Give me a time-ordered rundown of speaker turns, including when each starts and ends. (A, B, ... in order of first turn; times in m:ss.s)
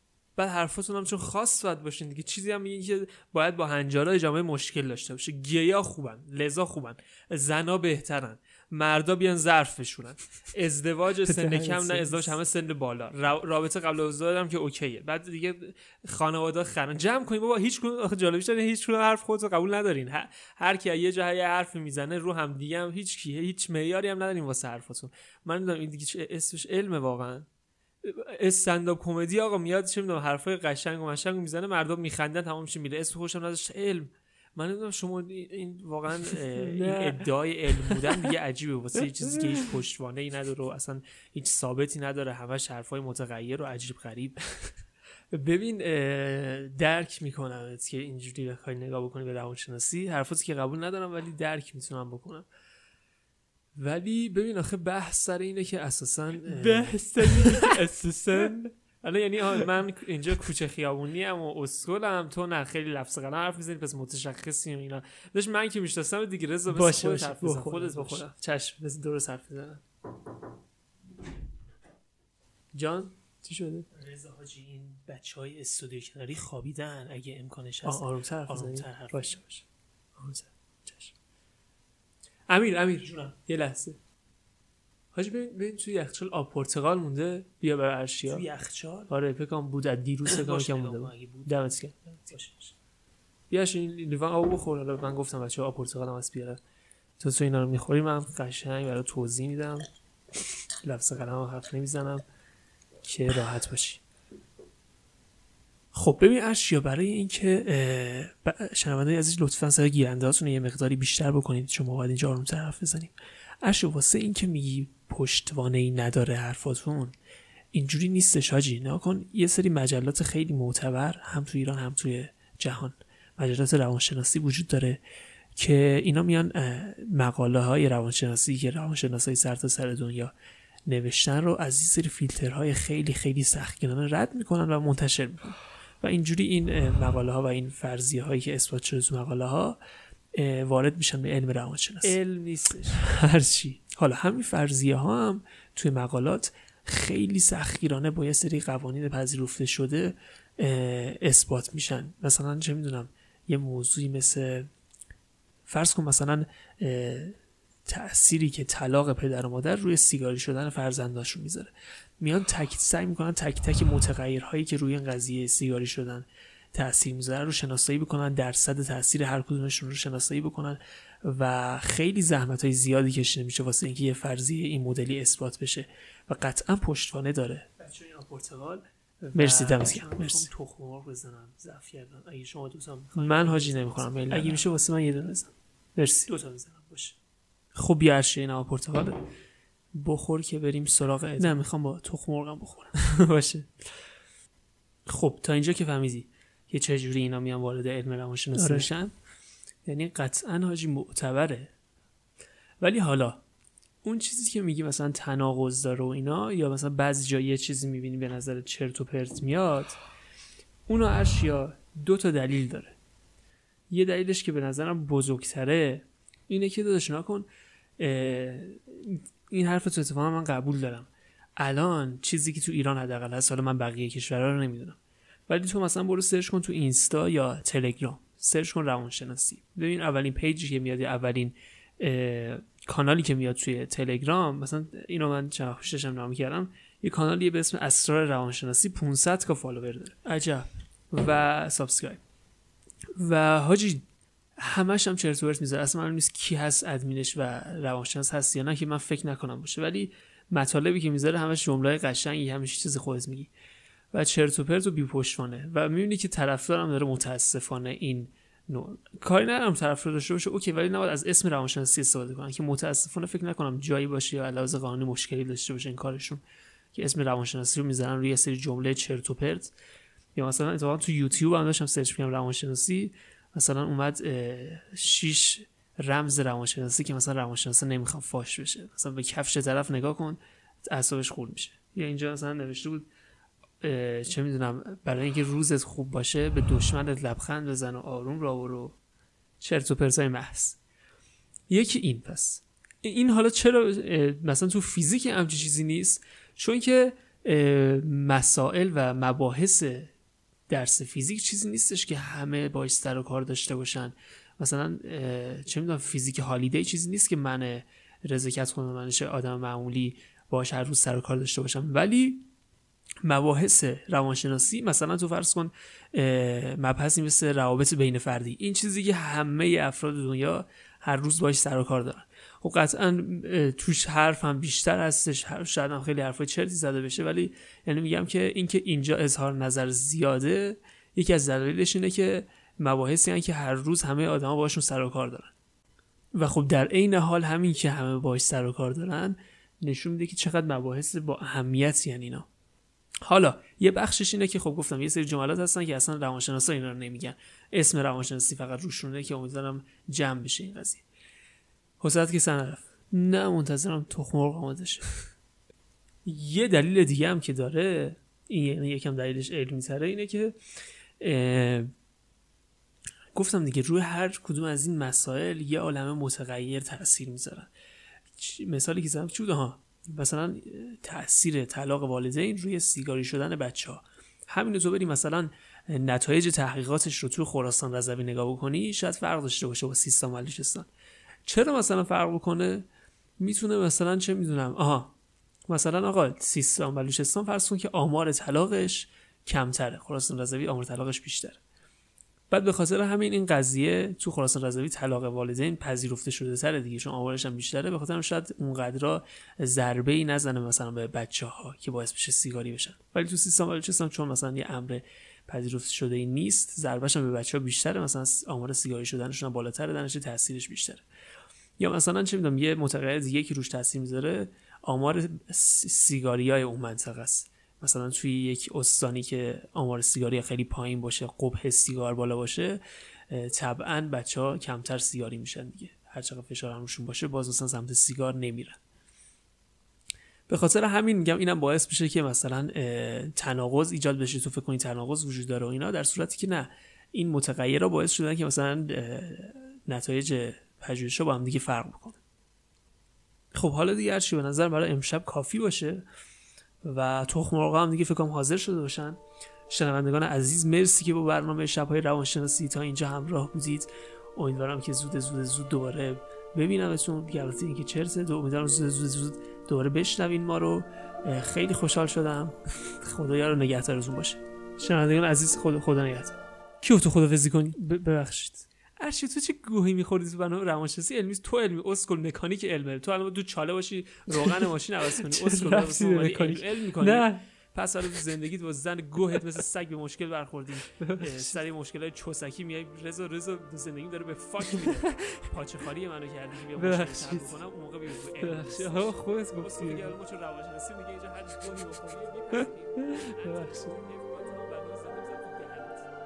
0:00.4-0:27.5 A
0:11.2-0:12.3 B
0:28.0-0:44.8 A
0:36.3-0:37.2 B
0:38.0-0:38.3 B
0:45.3-0:52.4 A
0:53.7-1:09.8 A
0:56.4-0:58.7 B
1:06.7-1:08.3 B
1:12.7-1:13.1 A
1:13.4-1:13.9 B
1:13.9-1:19.4 A
1:17.8-1:19.6 B
1:20.2-1:20.5 B
1:22.5-1:24.0 A
1:25.1-1:32.7 A
1:28.2-1:28.9 B
1:30.2-1:31.4 B
1:33.5-1:36.6 A
1:37.2-1:39.9 A
1:40.8-1:42.2 A
1:43.0-1:44.0 A
1:45.9-1:57.1 A
1:57.7-2:05.0 A
2:05.6-2:10.3 A
2:10.9-2:19.8 A
2:20.3-2:34.7 A
2:22.0-2:22.9 B
2:35.7-2:58.8 A
2:59.2-3:00.5 B
2:59.3-3:02.5 A
3:02.5-3:05.3 B
3:03.1-3:07.1 A
3:07.7-3:09.2 A
3:09.9-3:13.7 A
3:15.0-3:19.1 A
3:18.5-3:18.9 B
3:19.8-3:21.7 A
3:22.8-3:23.4 A
3:24.0-3:30.0 A
3:30.9-3:33.0 A
3:33.9-3:37.5 A
3:38.0-3:45.0 A
3:45.5-4:02.2 A
4:03.2-4:04.0 A
4:04.6-4:13.5 A
4:14.1-4:26.4 A
4:26.9-4:29.7 A
4:30.4-4:43.1 A
4:43.8-4:49.0 A
4:49.6-4:50.8 A
4:51.7-5:00.1 A
5:00.7-5:12.4 A
5:13.2-5:35.5 A
5:36.3-5:42.5 A
5:43.2-5:51.0 A
5:52.0-5:55.2 A
5:56.2-6:00.5 A
6:01.2-6:01.9 A
6:03.3-6:07.7 A
6:08.4-6:20.9 A
6:21.4-6:22.8 A
6:23.4-6:25.1 A
6:25.7-6:31.6 A
6:32.5-6:51.0 A
6:51.8-7:08.8 A
7:10.5-7:22.2 A
7:23.5-7:26.0 A
7:26.8-8:16.1 A
7:55.2-7:57.4 B
8:01.0-8:01.5 B
8:04.6-8:05.0 B
8:06.8-8:07.6 B
8:08.4-8:10.1 B
8:12.6-8:13.9 B